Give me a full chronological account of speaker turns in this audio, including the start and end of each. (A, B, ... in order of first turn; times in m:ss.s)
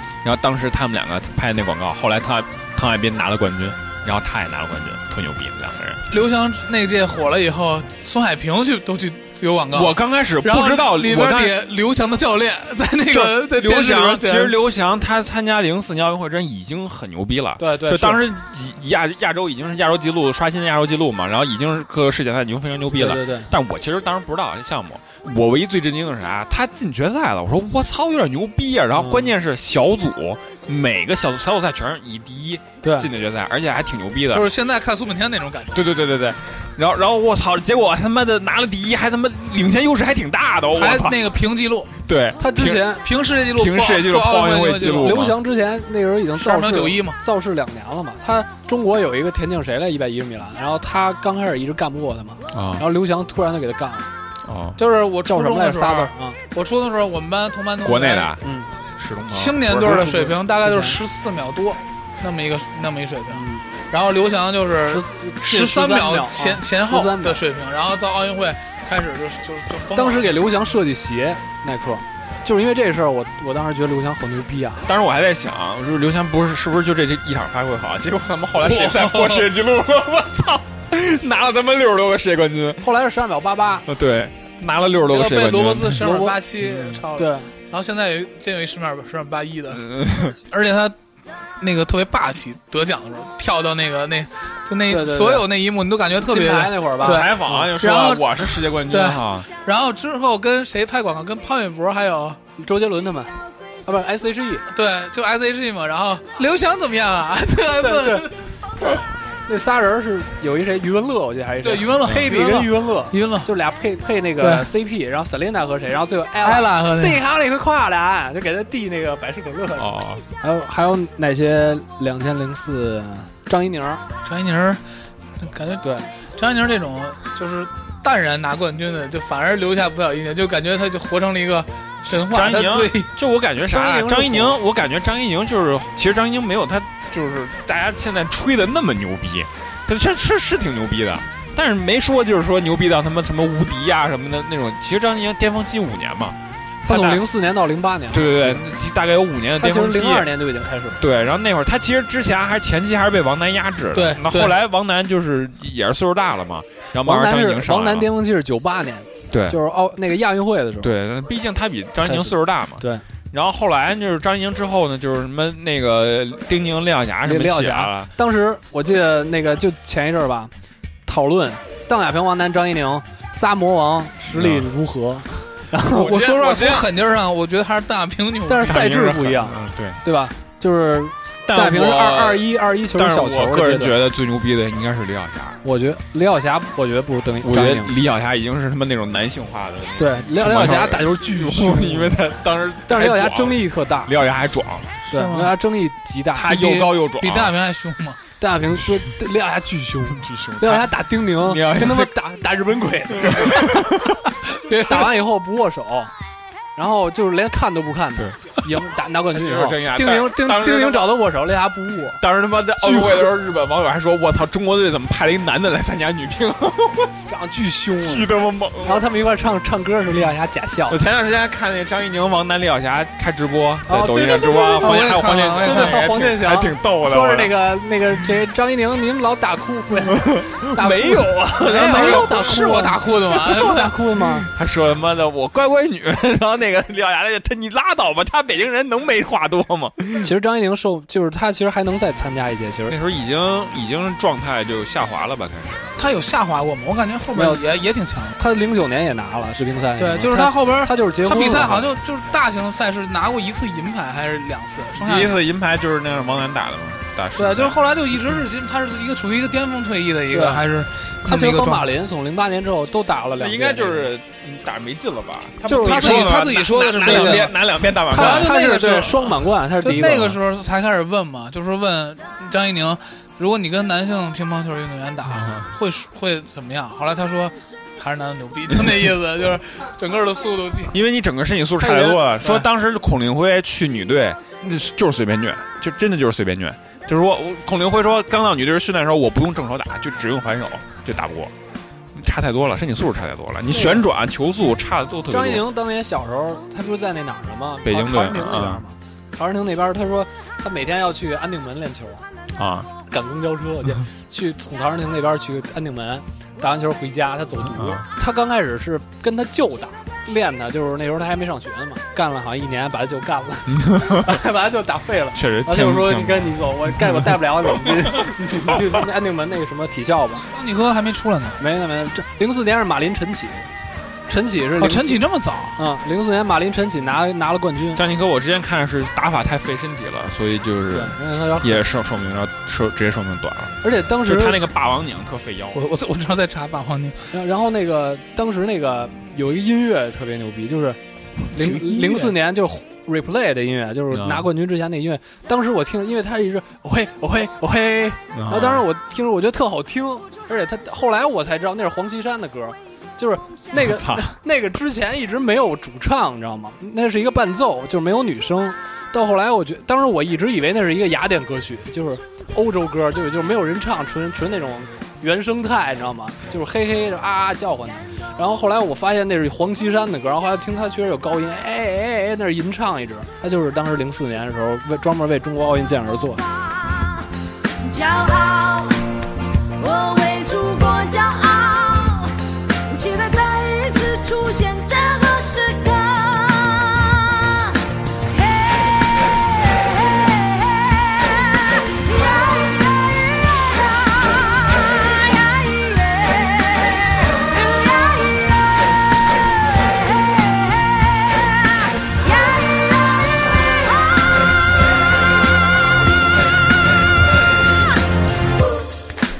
0:00.2-0:06.0 A
0:06.1-0:14.6 B
0:09.7-0:11.5 A
0:13.1-0:34.5 A
0:17.6-0:18.3 C
0:22.9-0:23.5 C
0:29.0-0:29.3 C
0:32.8-0:33.1 C
0:34.3-0:35.8 B
0:35.7-0:41.2 A
0:40.7-0:41.9 B
0:42.0-0:42.9 A
0:42.4-0:43.0 C
0:43.0-0:45.2 B
0:43.5-0:45.4 A
0:44.8-0:54.1 C
0:46.4-0:47.2 B
0:52.5-0:52.9 A
0:54.4-0:54.8 A
0:54.8-0:58.3 B
0:55.2-0:56.4 C
0:57.8-0:58.4 A
0:58.4-0:58.7 C
0:59.0-1:00.1 A
0:59.3-1:10.3 B
0:59.8-1:01.0 C
1:03.3-1:03.7 C
1:04.8-1:07.4 C
1:10.0-1:14.8 C
1:14.9-1:22.8 A
1:18.6-1:19.5 B
1:22.8-1:23.8 C
1:23.9-1:26.0 A
1:25.0-1:31.0 B
1:26.0-1:26.4 C
1:26.7-1:27.0 A
1:27.1-1:27.5 C
1:29.7-1:30.4 A
1:31.6-1:42.4 B
1:34.9-1:35.4 C
1:36.2-1:37.7 C
1:37.0-1:39.5 A
1:42.6-1:44.6 C
1:44.7-1:48.4 B
1:47.8-1:48.2 C
1:49.5-1:59.9 C
1:51.6-1:53.5 B
1:54.4-1:54.7 B
1:56.4-1:57.2 B
1:59.8-2:00.2 A
2:00.4-2:04.0 C
2:04.2-2:04.8 B
2:05.4-2:13.1 B
2:05.8-2:06.1 C
2:12.3-2:27.3 A
2:13.7-2:14.6 C
2:26.9-2:28.7 C
2:28.1-2:30.3 A
2:29.6-2:31.0 C
2:31.0-2:38.1 A
2:33.9-2:34.6 B
2:37.0-2:40.9 C
2:39.3-2:39.6 A
2:40.8-2:48.1 A
2:42.0-2:43.0 C
2:47.2-2:50.5 C
2:51.1-2:56.3 C
2:54.2-2:54.7 A
2:55.9-2:56.8 A
2:56.1-2:58.8 B
2:58.4-3:03.9 C
2:58.6-3:00.0 A
3:01.5-3:05.6 A
3:05.6-3:07.9 C
3:07.4-3:15.0 A
3:10.0-3:12.2 C
3:12.9-3:14.1 C
3:15.1-3:15.5 B
3:15.1-3:16.9 C
3:16.3-3:17.5 A
3:16.5-3:18.2 B
3:18.4-3:23.6 C
3:20.2-3:22.1 A
3:23.2-3:23.6 A
3:24.6-3:25.1 B
3:24.8-3:26.1 C
3:26.8-3:32.2 C
3:29.3-3:31.1 A
3:32.2-3:37.1 A
3:32.8-3:33.3 C
3:37.3-3:38.3 C
3:38.0-3:39.1 A
3:38.8-3:41.0 C
3:40.9-3:47.5 A
3:43.9-3:54.5 C
3:44.8-3:46.1 B
3:50.1-3:52.7 A
3:51.6-3:53.9 B
3:54.5-4:00.3 A
4:00.2-4:03.0 C
4:02.9-4:05.9 A
4:06.0-4:08.4 B
4:07.3-4:07.6 C
4:08.4-4:11.8 C
4:10.0-4:15.3 B
4:15.0-4:17.8 A
4:17.4-4:21.9 B
4:20.3-4:20.6 C
4:21.2-4:24.1 C
4:23.4-4:29.0 A
4:25.6-4:26.4 C
4:25.7-4:29.1 B
4:27.0-4:27.5 C
4:28.1-4:30.4 C
4:29.8-4:41.0 B
4:35.3-4:35.7 A
4:40.9-4:51.5 A
4:41.8-4:42.7 B
4:52.1-4:55.7 A
4:53.7-4:54.0 C
4:55.3-5:02.2 C
4:57.8-4:58.8 A
5:02.6-5:02.9 A
5:03.0-5:20.4 C
5:07.7-5:08.1 A
5:13.7-5:14.4 A
5:15.3-5:18.2 A
5:20.5-5:21.6 B
5:21.6-5:23.6 C
5:24.3-5:25.2 C
5:24.8-5:25.8 B
5:25.8-5:28.0 C
5:27.9-5:35.8 A
5:30.9-5:31.9 C
5:33.8-5:34.7 C
5:35.7-5:37.2 B
5:37.3-5:41.0 C
5:41.5-6:16.4 C
5:41.5-5:42.3 B
5:44.1-5:44.5 A
5:48.3-5:48.8 A
5:53.7-5:54.4 A
6:17.8-6:19.0 D
6:19.8-6:22.3 D
6:22.9-6:27.7 D
6:28.3-6:29.4 D
6:30.0-6:33.2 D
6:34.2-6:37.0 D
6:37.5-6:39.0 D
6:40.2-6:41.5 D
6:42.0-6:43.2 D